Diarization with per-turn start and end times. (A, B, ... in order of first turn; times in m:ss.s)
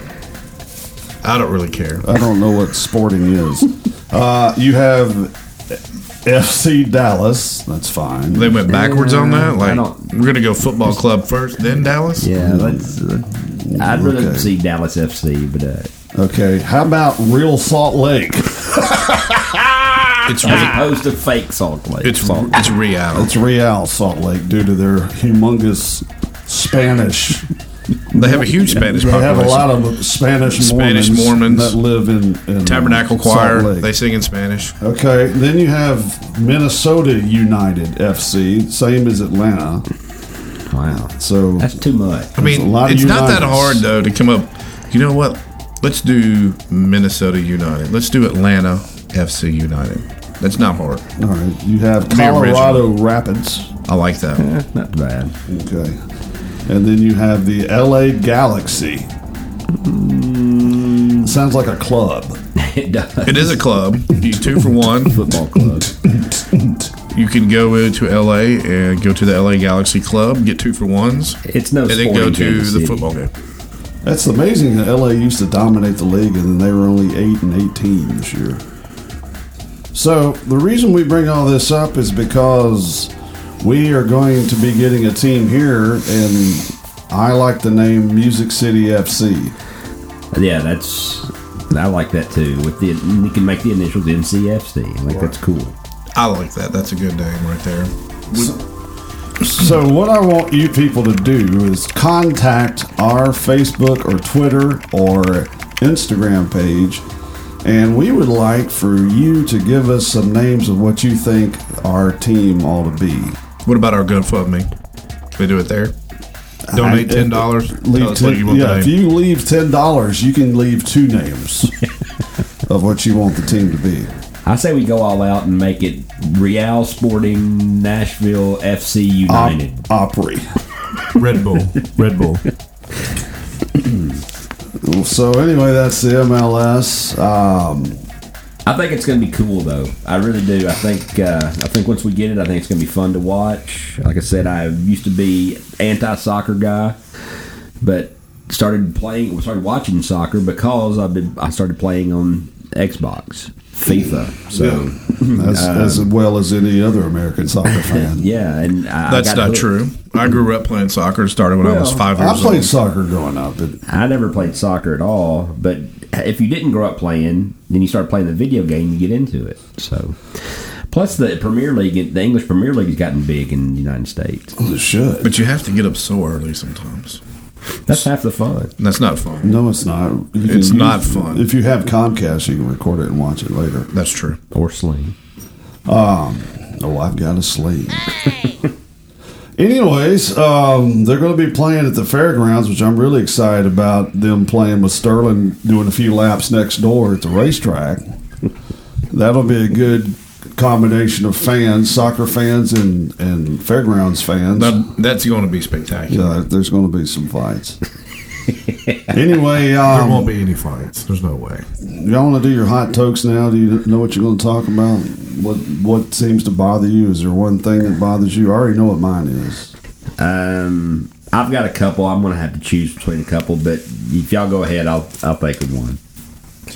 0:01.2-0:02.1 A
0:02.0-0:08.6 B
0:08.3-0:12.3 A
0:08.7-0:10.1 C
0:12.2-0:15.9 C
0:12.3-0:14.5 B
0:16.1-0:20.5 B
0:20.2-0:20.8 A
0:20.4-0:22.7 C
0:22.0-0:23.3 A
0:23.1-0:27.5 B
0:28.1-0:33.9 B
0:28.1-0:29.7 A
0:30.5-0:31.8 A
0:32.6-0:34.8 A
0:34.8-0:39.8 B
0:40.7-0:42.3 C
0:41.2-0:41.8 B
0:42.4-0:43.8 B
0:42.4-0:51.0 A
0:51.2-0:53.7 B
0:52.1-0:52.9 A
0:53.9-0:54.4 A
0:54.4-0:55.3 C
0:55.5-0:56.0 B
0:56.7-0:59.1 B
0:59.7-1:01.3 C
1:01.2-1:02.4 B
1:02.6-1:03.5 C
1:03.2-1:05.2 A
1:05.0-1:05.9 C
1:05.5-1:06.9 B
1:07.1-1:13.3 A
1:11.4-1:13.1 C
1:14.0-1:18.6 B
1:19.9-1:29.5 B
1:30.3-1:35.7 C
1:36.2-1:37.9 A
1:39.4-1:47.0 B
1:47.6-1:53.4 B
1:53.6-1:54.7 A
1:55.4-1:55.9 A
1:56.7-2:01.7 B
1:56.7-1:58.9 A
2:02.7-2:04.1 B
2:04.4-2:09.8 C
2:09.3-2:10.5 B
2:11.1-2:12.4 A
2:14.8-2:18.0 B
2:18.6-2:27.0 C
2:27.8-2:36.1 C
2:34.5-2:38.3 B
2:37.7-2:39.7 C
2:39.1-2:42.7 A
2:41.6-2:42.1 C
2:42.1-2:43.8 B
2:43.9-2:54.6 C
2:54.6-2:55.3 B
2:55.2-2:57.2 A
2:57.9-2:58.7 C
2:58.8-2:59.6 A
2:59.4-3:03.9 B
3:00.4-3:01.4 A
3:03.9-3:04.4 A
3:04.5-3:05.1 C
3:05.8-3:08.3 B
3:09.6-3:18.0 B
3:19.1-3:24.8 B
3:24.5-3:26.4 A
3:26.1-3:27.8 B
3:29.1-3:30.3 B
3:29.8-3:31.6 A
3:31.8-3:39.7 B
3:40.2-3:46.0 C